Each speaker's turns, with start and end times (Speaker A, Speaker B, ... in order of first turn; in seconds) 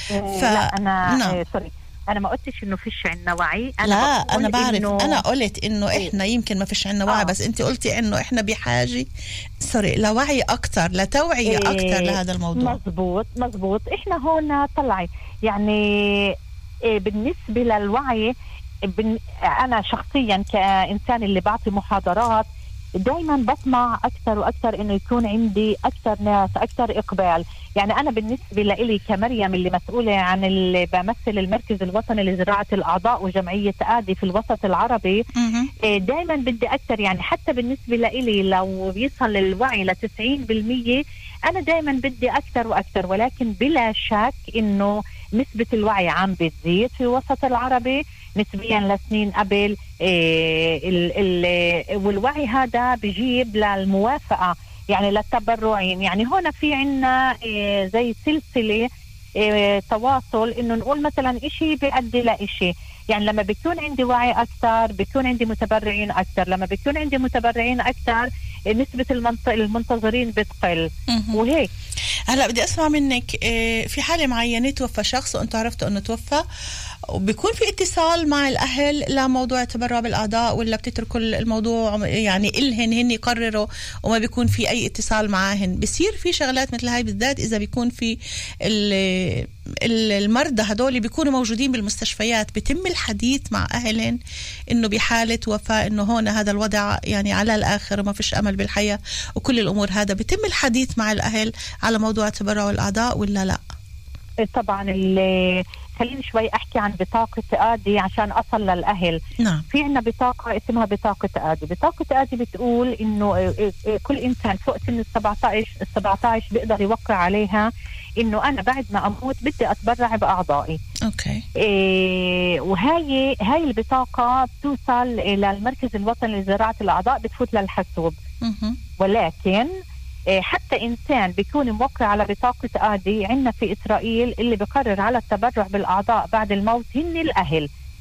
Speaker A: 0.1-5.2, 7.1-7.3, 11.4-16.3, 16.9-18.3, 18.8-22.4, 23.0-35.2, 35.8-58.9, 59.4-71.7, 104.4-109.2, 109.7-117.7, 118.2-120.8, 121.6-128.1, 129.0-129.7, 130.4-137.7
Speaker B: 0.3-1.4, 3.8-9.1, 9.6-12.8, 35.4-35.7, 71.1-71.4, 72.3-76.4, 77.1-94.2, 94.7-103.6, 109.4-109.6, 121.0-121.5, 128.4-128.8